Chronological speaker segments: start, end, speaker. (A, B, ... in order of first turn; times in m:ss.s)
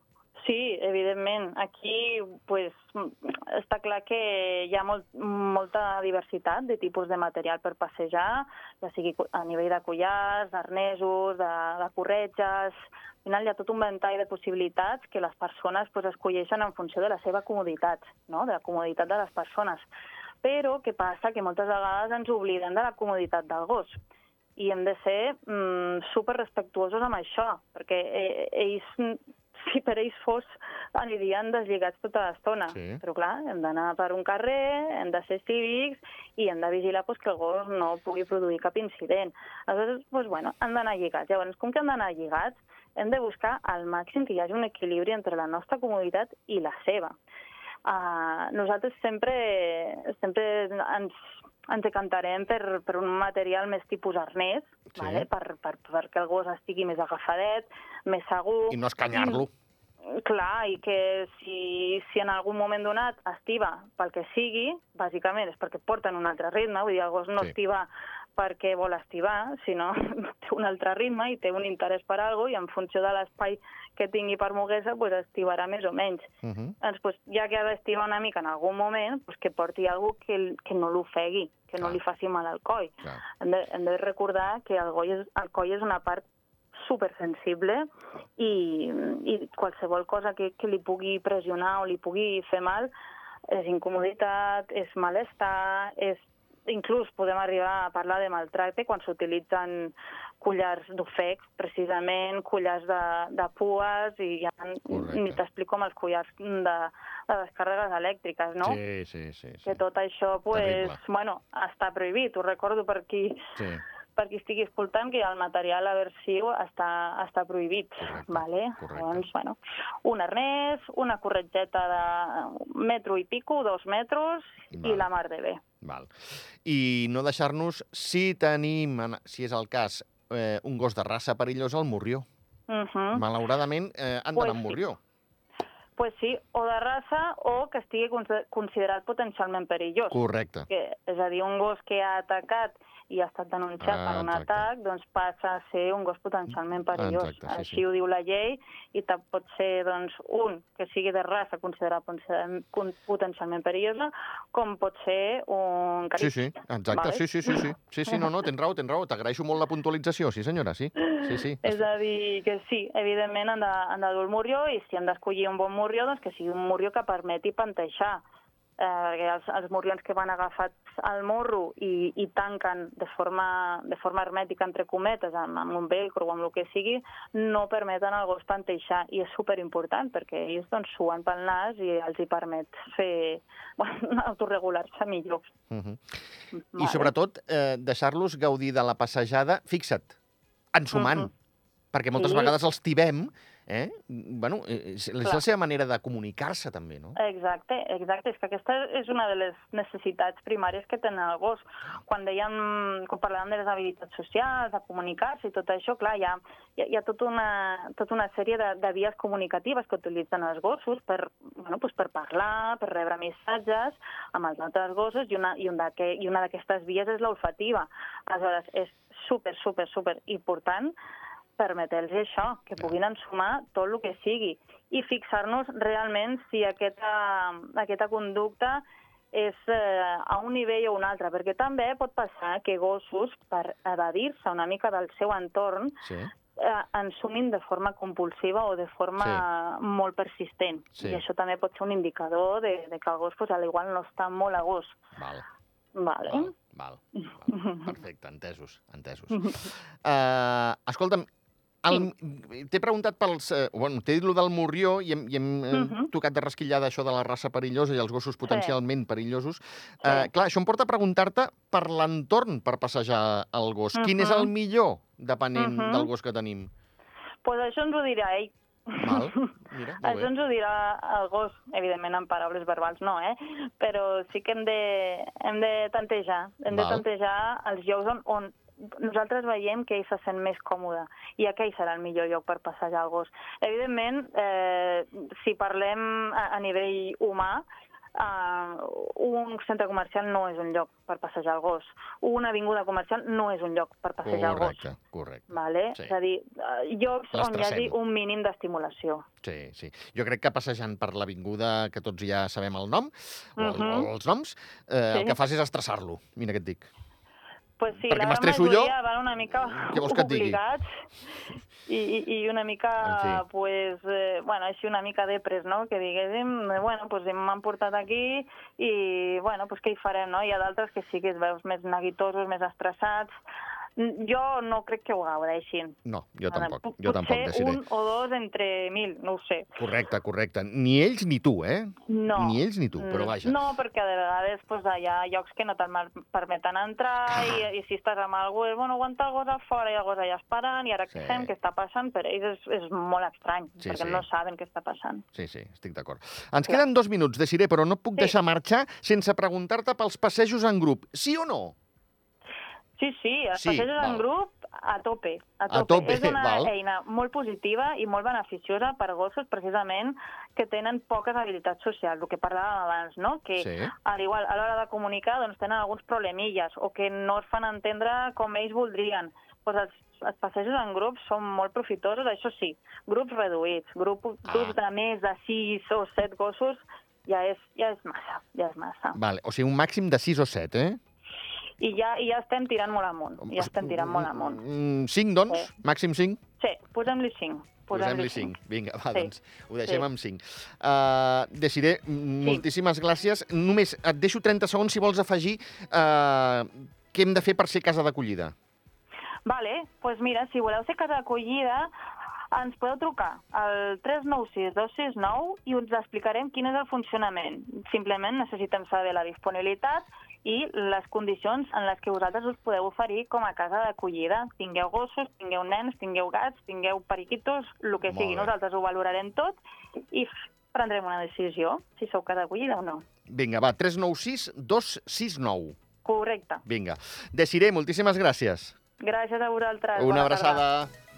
0:00.4-0:19.9 A
0:20.4-0:24.0 A
0:24.6-0:47.1 A
0:32.7-0:33.0 B
0:47.8-0:59.4 A
0:54.9-0:55.3 B
0:58.7-0:59.5 B
1:00.1-1:32.9 A
1:16.4-1:16.8 B
1:33.5-1:48.8 A
1:44.9-1:45.4 B
1:48.6-1:49.8 B
1:49.6-1:53.4 A
1:50.5-1:51.0 B
1:53.6-1:53.8 B
1:54.2-2:05.6 A
1:58.0-1:59.2 B
2:04.7-2:05.1 B
2:05.8-2:12.2 B
2:12.7-2:13.2 A
2:13.1-2:15.0 B
2:14.4-2:14.8 A
2:16.0-2:38.3 A
2:20.1-2:20.7 B
2:23.8-2:24.7 B
2:26.9-2:27.8 B
2:36.2-2:41.8 B
2:41.0-2:48.2 A
2:48.8-3:05.5 A
3:05.7-3:06.1 B
3:06.5-3:07.1 A
3:06.8-3:10.1 B
3:10.7-3:11.3 B
3:10.9-3:11.3 A
3:11.9-3:17.2 B
3:12.1-3:12.5 A
3:17.2-3:40.9 A
3:41.6-3:56.0 A
3:56.0-3:56.3 B
3:56.5-4:05.0 A
3:59.2-3:59.4 B
4:01.0-4:01.2 B
4:05.2-4:05.4 B
4:05.9-4:06.5 A
4:06.3-4:11.3 B
4:07.1-4:07.9 A
4:09.3-4:09.6 A
4:11.8-4:26.7 B
4:15.7-4:16.1 A
4:18.4-4:18.8 A
4:20.0-4:20.3 A
4:23.9-4:24.5 A
4:25.5-4:26.1 A
4:27.4-4:47.6 A
4:29.0-4:30.3 B
4:36.7-4:37.0 B
4:48.2-4:54.9 A
4:54.2-4:56.1 B
4:55.5-4:59.2 A
4:57.3-4:57.9 B
4:59.4-5:06.9 B
5:03.6-5:04.1 A
5:05.1-5:05.4 A
5:07.8-5:11.0 A
5:08.0-5:08.9 B
5:09.7-5:10.6 B
5:11.9-5:23.3 A
5:13.0-5:13.4 B
5:24.0-5:26.0 A
5:26.0-5:27.8 B
5:26.5-5:29.8 A
5:29.8-5:33.6 B
5:32.1-5:45.2 A
5:37.3-5:37.6 B
5:41.1-5:41.5 B
5:43.8-5:44.2 B
5:45.4-5:51.8 B
5:53.0-6:19.2 A
5:53.5-5:54.2 B
5:55.7-5:56.7 B
6:03.6-6:03.9 B
6:14.4-6:14.8 B
6:19.1-6:21.0 B
6:21.8-6:24.6 A
6:23.4-6:26.4 B
6:26.6-6:28.5 A
6:27.9-6:38.5 B
6:39.4-6:41.9 A
6:42.5-6:59.6 A
6:58.1-6:58.5 B
7:00.1-7:03.0 A
7:03.3-7:05.8 B
7:06.0-7:06.6 A
7:06.6-7:08.8 B
7:09.0-7:10.6 A
7:09.9-7:10.9 B